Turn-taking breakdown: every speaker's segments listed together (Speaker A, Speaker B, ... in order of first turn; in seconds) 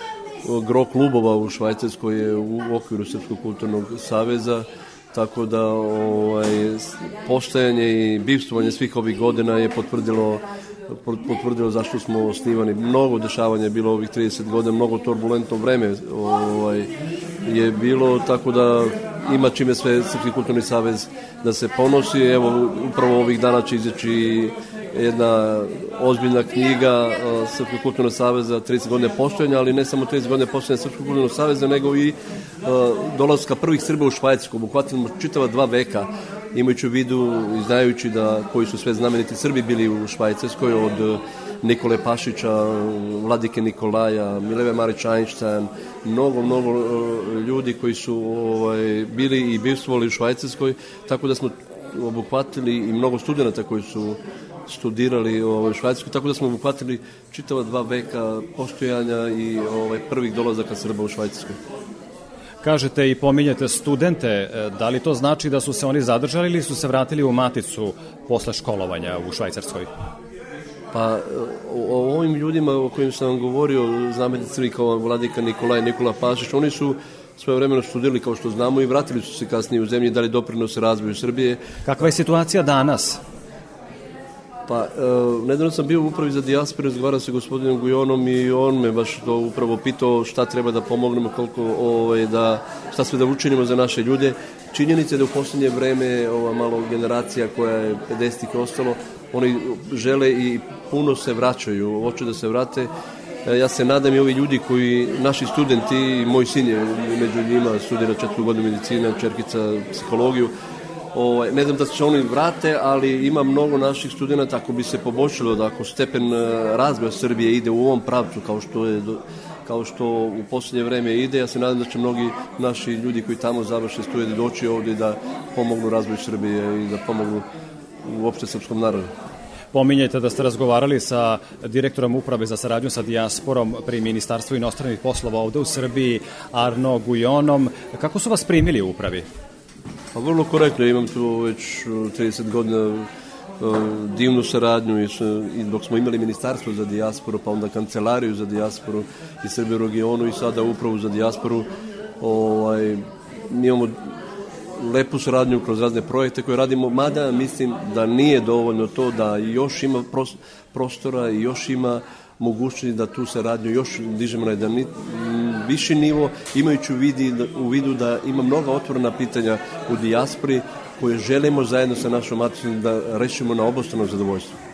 Speaker A: 0.4-16.9, 17.4-61.6, 70.9-81.6, 84.7-102.9, 103.5-110.5, 111.1-127.5, 128.0-129.1, 140.1-143.1, 143.6-151.7, 152.2-154.1, 154.8-174.6
Speaker B: 62.6-69.9, 81.9-83.2, 129.7-139.2